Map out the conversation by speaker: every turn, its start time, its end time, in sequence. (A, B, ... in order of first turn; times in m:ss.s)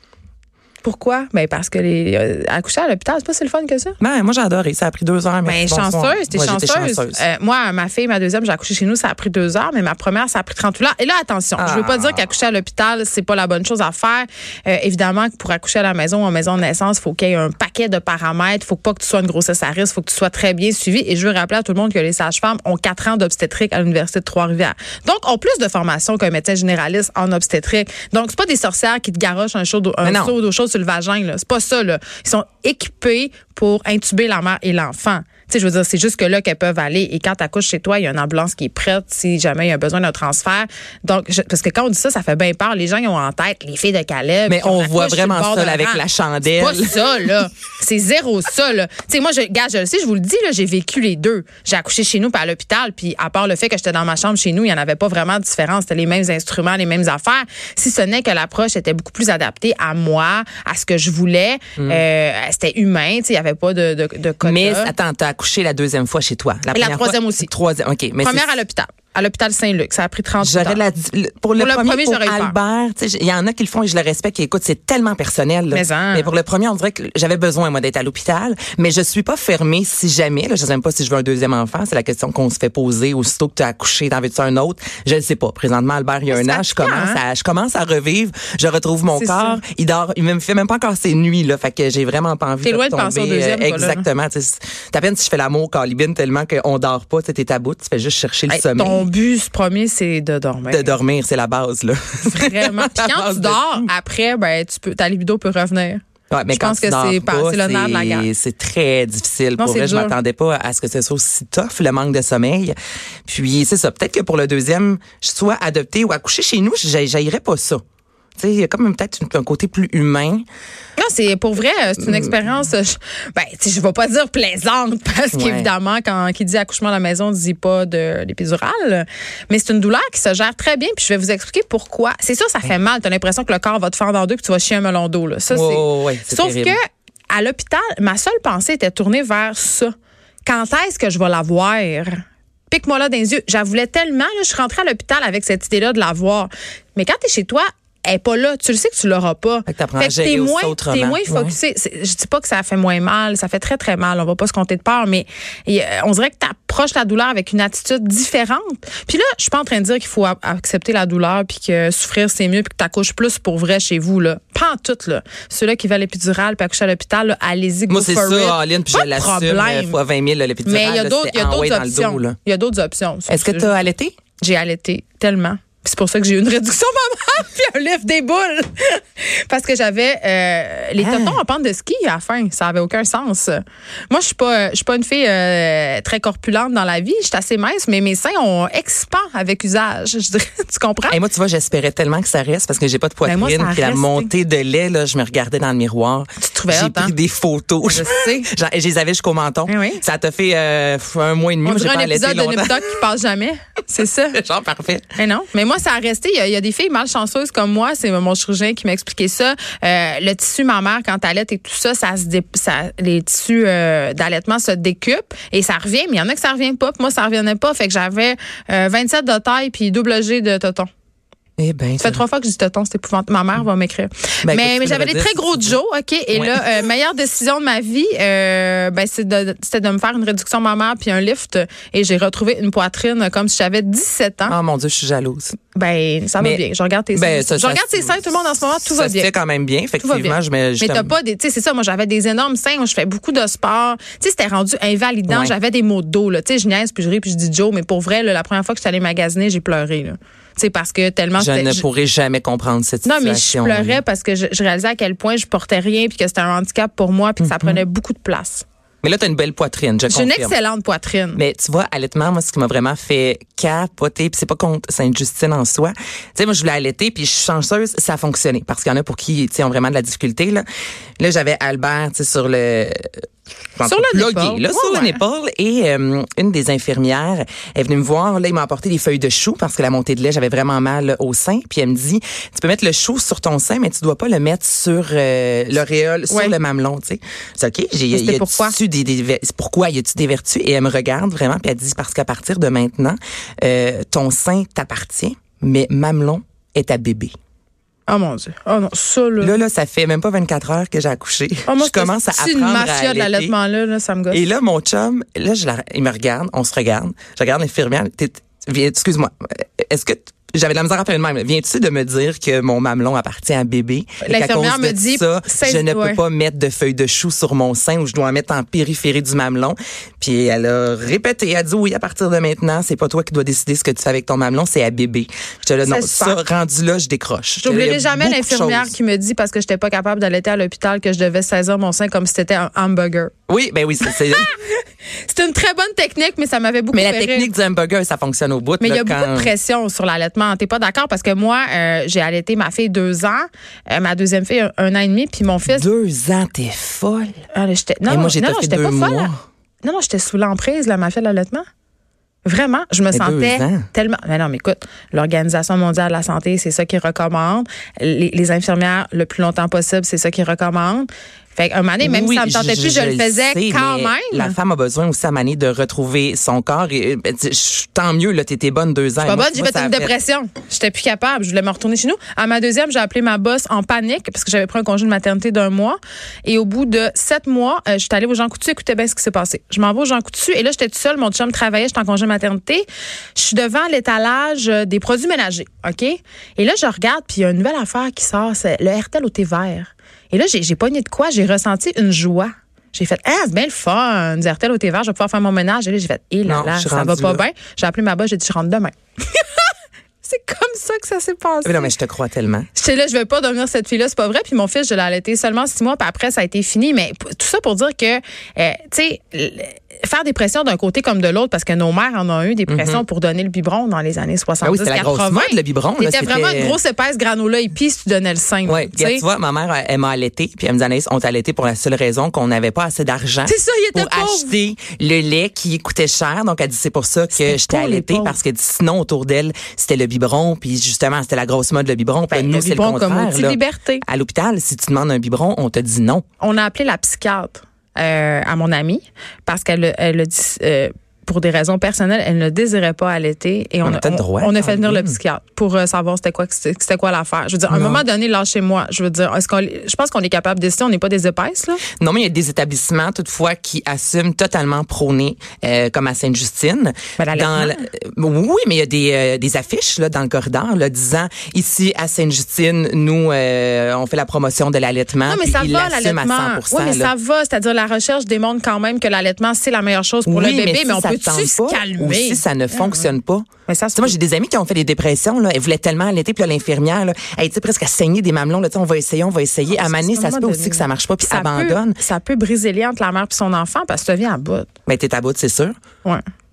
0:00.8-0:04.0 A
0:04.0-0:07.2 B
0:05.4-1:04.9 A
0:11.6-0:12.2 B
0:30.0-0:30.3 B
0:44.5-0:47.2 B
1:01.8-1:02.0 B
1:04.4-1:08.5 B
1:06.7-1:07.5 A
1:08.2-1:10.8 A
1:10.4-1:39.1 B
1:11.6-1:12.5 A
1:15.7-1:16.3 A
1:26.3-1:27.2 A
1:29.1-1:29.6 A
1:32.6-1:34.0 A
1:38.5-1:40.9 A
1:40.7-1:43.9 B
1:42.3-1:48.3 A
1:46.3-1:52.8 B
1:49.6-1:50.2 A
1:53.3-1:57.8 B
1:58.4-2:00.4 B
2:01.0-2:19.9 A
2:02.0-2:02.4 B
2:05.3-2:05.7 B
2:15.5-2:16.8 B
2:20.4-2:50.0 A
2:29.7-2:31.6 B
2:47.9-2:52.4 B
2:50.6-2:53.7 A
2:53.3-2:54.1 B
2:54.4-3:11.2 A
3:01.0-3:01.4 B
3:11.1-3:22.9 B
3:13.2-3:14.3 A
3:16.4-3:17.1 A
3:17.8-3:18.5 A
3:19.7-3:20.0 A
3:21.6-3:24.4 A
3:24.3-3:25.1 B
3:25.2-3:40.9 A
3:41.6-3:42.2 B
3:42.0-3:54.6 A
3:44.4-3:45.8 B
3:46.3-3:46.7 B
3:54.4-3:55.6 B
3:55.7-3:59.3 A
3:56.4-4:01.1 B
4:00.0-4:11.8 A
4:05.3-4:05.5 B
4:11.4-4:14.0 B
4:13.0-4:18.6 A
4:17.4-4:17.8 B
4:19.0-4:20.5 B
4:20.1-4:21.4 A
4:21.3-4:30.6 B
4:31.2-4:33.2 B
4:33.8-4:57.3 B
4:33.8-4:35.2 A
4:46.3-4:46.6 A
4:48.1-4:48.8 A
4:58.1-4:59.6 A
4:59.4-5:03.6 B
5:01.7-5:04.5 A
5:04.3-5:28.9 B
5:14.2-5:16.2 A
5:25.8-5:26.4 A
5:27.6-5:33.3 A
5:33.5-5:34.5 B
5:34.0-5:37.5 A
5:36.9-5:39.5 B
5:38.8-5:45.9 A
5:45.6-5:47.4 B
5:47.5-5:51.6 A
5:48.1-5:49.4 B
5:52.4-6:04.6 A
5:53.1-5:53.9 B
6:02.0-6:10.1 B
6:09.2-6:39.7 A
6:36.4-6:37.4 B
6:40.2-6:41.9 A
6:41.6-6:42.7 B
6:42.7-6:59.2 A
6:52.7-6:53.0 B
6:54.6-6:56.8 B
6:58.6-7:16.2 B
7:03.4-7:04.5 A
7:07.3-7:08.4 A
7:12.3-7:14.0 A
7:16.4-7:31.8 A
7:23.8-7:25.2 B
7:27.7-7:28.0 B
7:32.0-7:47.1 B
7:37.2-7:37.8 A
7:45.2-7:53.1 A
7:50.2-8:02.0 B
7:53.7-7:54.2 A
7:59.7-8:04.7 A
8:04.9-8:05.7 B